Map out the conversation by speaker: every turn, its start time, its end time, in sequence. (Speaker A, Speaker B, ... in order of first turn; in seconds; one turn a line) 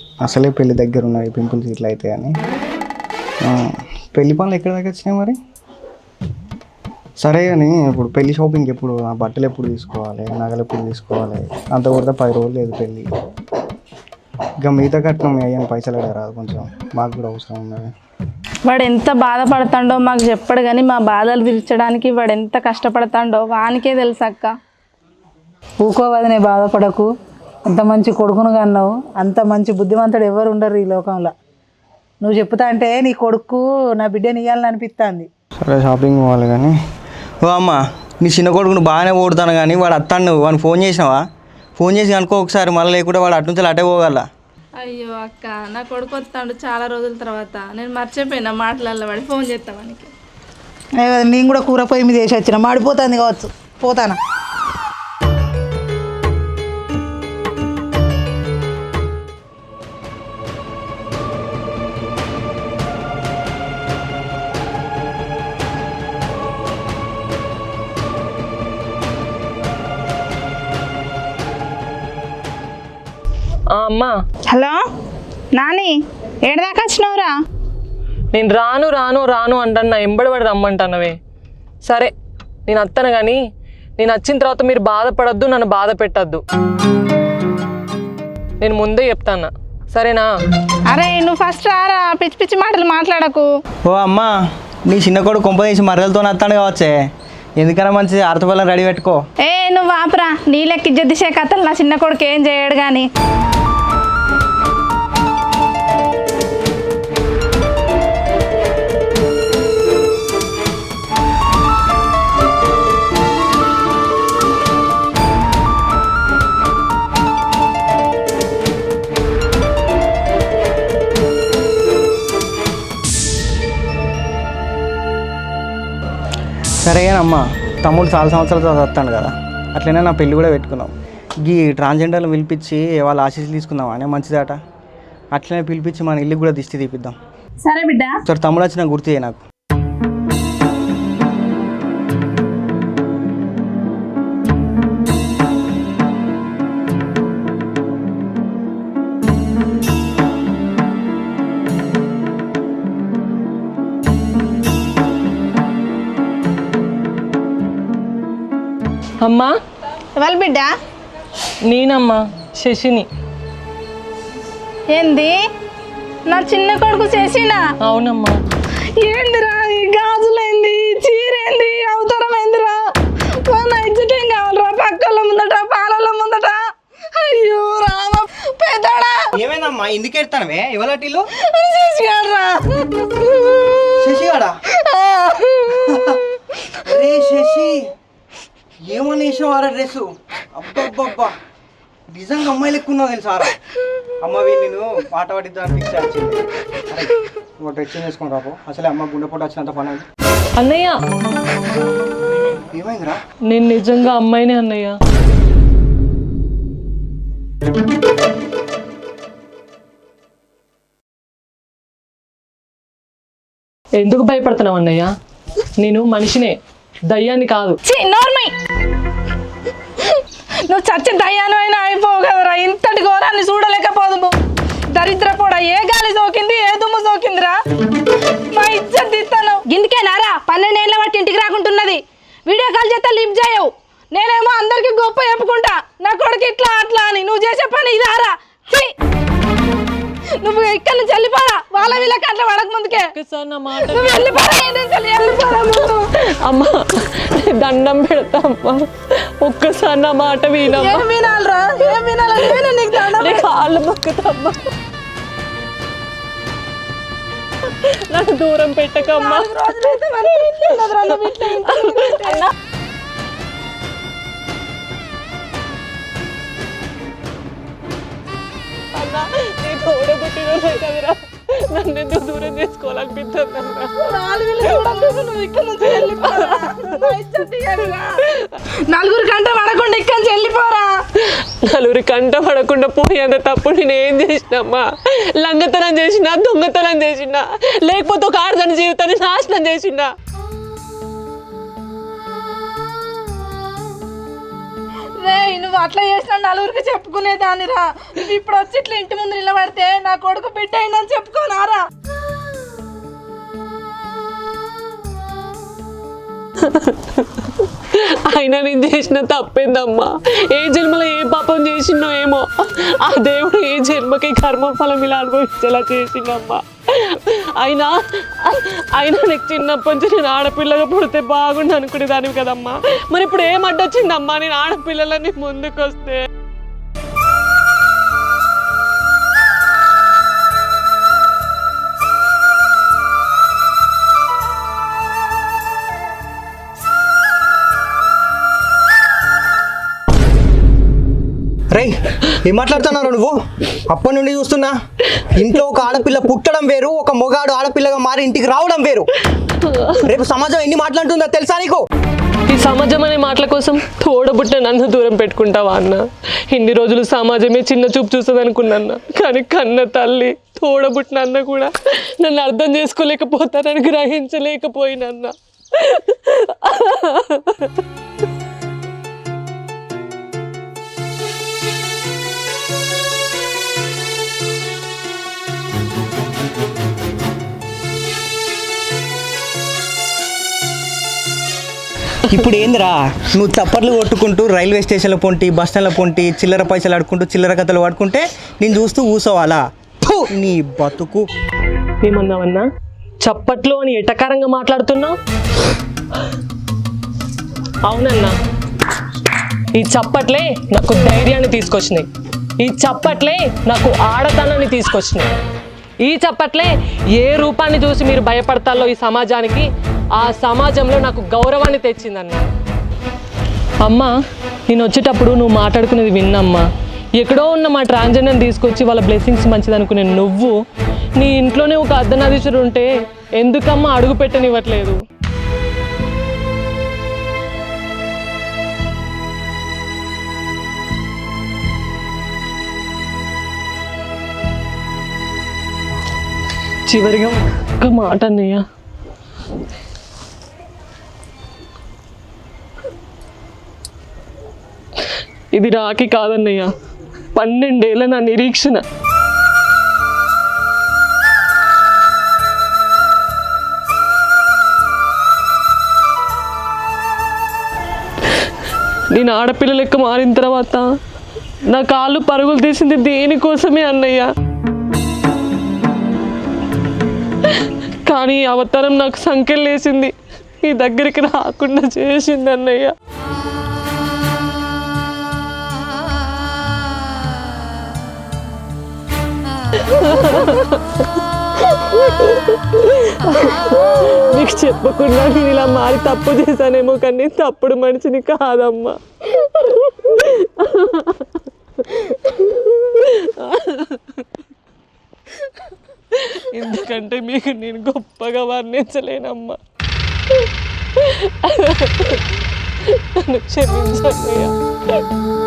Speaker A: 0.2-2.3
Speaker A: 3.4-5.4
Speaker A: 7.2-13.1
Speaker A: 14.6-17.9
Speaker B: 18.7-24.5
Speaker C: 25.8-27.1
Speaker C: 27.7-31.3
Speaker C: 32.2-35.3
Speaker A: 35.6-36.7
Speaker A: 37.4-41.2
Speaker A: 41.8-44.2
Speaker B: 44.8-50.1
Speaker C: 51.0-54.2
Speaker D: 73.8-74.1
Speaker B: 74.5-74.8
Speaker B: 75.6-76.0
Speaker B: 76.5-77.3
Speaker D: 78.3-81.1
Speaker D: 81.8-82.1
Speaker D: 82.7-83.4
Speaker D: 84.0-86.4
Speaker D: 88.6-90.3
Speaker B: 90.9-93.4
Speaker A: 93.9-94.3
Speaker A: 94.9-96.9
Speaker A: 97.6-99.2
Speaker B: 99.5-103.1
Speaker A: 126.8-130.9
Speaker A: 131.4-134.6
Speaker A: 135.3-137.1
Speaker B: 137.6-138.2
Speaker A: 138.3-139.4
Speaker D: 159.2-159.5
Speaker B: 160.2-160.7
Speaker D: 161.7-163.1
Speaker B: 164.9-165.3
Speaker B: 166.3-167.6
Speaker D: 167.8-168.4
Speaker B: 169.0-172.8
Speaker B: 173.5-176.6
Speaker B: 177.2-179.1
Speaker A: 179.3-181.2
Speaker B: 181.5-182.8
Speaker A: 184.0-184.5
Speaker B: 184.9-185.9
Speaker A: 185.9-186.2
Speaker A: 186.8-187.8
Speaker A: 188.8-191.3
Speaker A: 192.1-193.5
Speaker A: 194.2-200.1
Speaker D: 200.6-201.0
Speaker A: 202.7-203.2
Speaker D: 203.5-204.9
Speaker D: 214.0-215.1
Speaker D: 215.8-216.6
Speaker D: 217.1-217.8
Speaker B: 217.9-218.5
Speaker B: 220.7-224.3
Speaker B: 224.9-227.5
Speaker B: 228.6-238.9
Speaker B: 240.4-243.1
Speaker D: 242.9-244.4
Speaker B: 243.8-246.0
Speaker D: 245.6-248.9
Speaker D: 249.4-251.1
Speaker B: 250.8-253.4
Speaker D: 252.3-254.6
Speaker D: 257.7-262.5
Speaker B: 259.1-262.4
Speaker D: 268.9-274.1
Speaker B: 274.0-278.2
Speaker D: 275.9-277.0
Speaker B: 278.9-280.9
Speaker D: 281.6-284.9
Speaker D: 285.4-290.1
Speaker B: 295.2-301.8
Speaker D: 306.7-326.2
Speaker A: 342.4-343.3
Speaker A: 343.9-344.7
Speaker A: 345.4-349.0
Speaker D: 349.6-350.0
Speaker A: 350.1-351.8
Speaker D: 352.5-367.7
Speaker A: 382.3-391.3
Speaker D: 392.0-392.6
Speaker D: 393.2-395.1
Speaker D: 397.9-398.3
Speaker D: 399.8-402.1
Speaker D: 402.6-405.3
Speaker D: 406.0-412.5
Speaker D: 413.8-414.1
Speaker D: 414.7-416.6
Speaker D: 417.2-420.5
Speaker D: 421.2-425.0
Speaker D: 436.9-438.6
Speaker D: 445.5-446.7
Speaker D: 447.4-448.8
Speaker D: 459.1-460.9
Speaker D: 461.7-464.3
Speaker D: 467.5-472.9
Speaker D: 479.8-480.8
Speaker D: 481.6-494.2
Speaker D: 496.1-499.6
Speaker D: 500.9-502.2
Speaker D: 502.8-504.5